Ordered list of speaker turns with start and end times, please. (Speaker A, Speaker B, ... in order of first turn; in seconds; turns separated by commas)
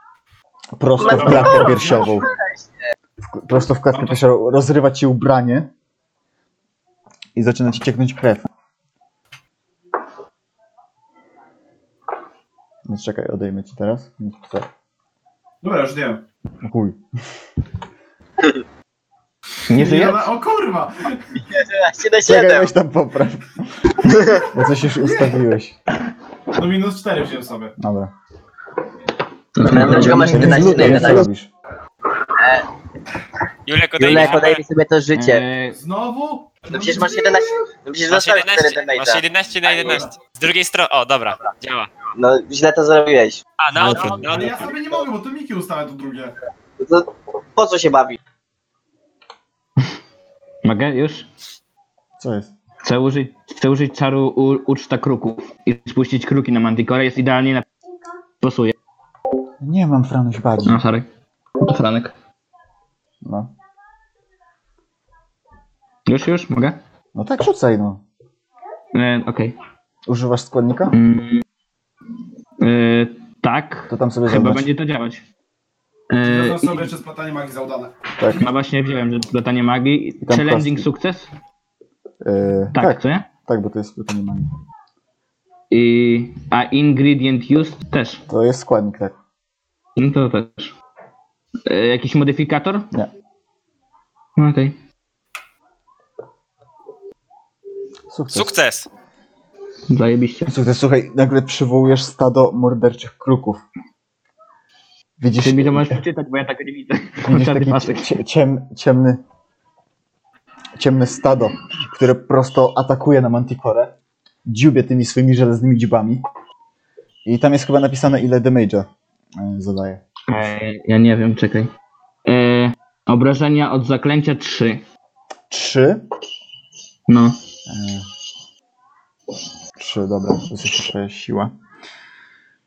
Speaker A: 0.8-2.3, Speaker B: 1.0-2.8, Speaker C: 1.1-2.1, Speaker A: 3.2-5.7, Speaker C: 3.9-4.2, Speaker A: 7.3-8.4, Speaker A: 12.9-14.7, Speaker C: 15.6-16.2, Speaker A: 16.6-17.0, Speaker C: 19.7-21.4, Speaker D: 19.7-20.2, Speaker B: 21.3-22.7, Speaker A: 22.2-25.7, Speaker C: 26.5-27.7, Speaker A: 27.8-28.1, Speaker D: 29.6-31.2, Speaker B: 29.6-31.3, Speaker A: 29.7-31.5, Speaker B: 32.4-32.6, Speaker E: 33.6-34.6, Speaker B: 34.0-35.4, Speaker D: 34.1-34.4, Speaker D: 35.1-35.8, Speaker C: 35.7-37.3, Speaker B: 36.7-40.0, Speaker E: 38.1-41.9, Speaker C: 39.7-40.1, Speaker B: 42.1-43.4, Speaker E: 43.6-44.8, Speaker A: 43.7-44.5, Speaker C: 43.9-46.4, Speaker B: 46.8-48.2, Speaker D: 50.6-51.3, Speaker A: 52.2-52.5, Speaker D: 52.8-57.6, Speaker D: 58.4-58.7, Speaker A: 59.6-60.8, Speaker D: 60.6-61.1, Speaker D: 61.6-62.1, Speaker A: 63.2-63.5, Speaker D: 66.0-66.8, Speaker A: 67.1-68.0, Speaker D: 68.9-69.5, Speaker A: 70.1-71.0, Speaker D: 70.9-71.4, Speaker D: 72.6-75.2, Speaker A: 73.9-74.7, Speaker D: 76.1-76.8, Speaker C: 76.2-78.0, Speaker A: 78.2-78.4, Speaker D: 78.3-81.3, Speaker A: 80.2-80.9, Speaker A: 82.2-84.5, Speaker D: 82.7-83.3, Speaker D: 85.7-88.2, Speaker A: 88.3-89.1, Speaker D: 90.0-90.7, Speaker D: 91.7-92.9, Speaker D: 94.3-94.7, Speaker A: 98.1-98.5, Speaker E: 98.3-98.9, Speaker D: 99.9-100.5, Speaker A: 100.5-103.6, Speaker A: 105.2-106.0, Speaker D: 105.4-108.1, Speaker A: 107.2-109.2, Speaker A: 110.8-113.9, Speaker A: 114.5-116.2, Speaker A: 117.2-120.5, Speaker D: 120.3-121.7, Speaker D: 122.2-124.8, Speaker A: 125.5-126.0, Speaker D: 127.1-127.3, Speaker A: 127.7-128.1, Speaker A: 129.8-131.5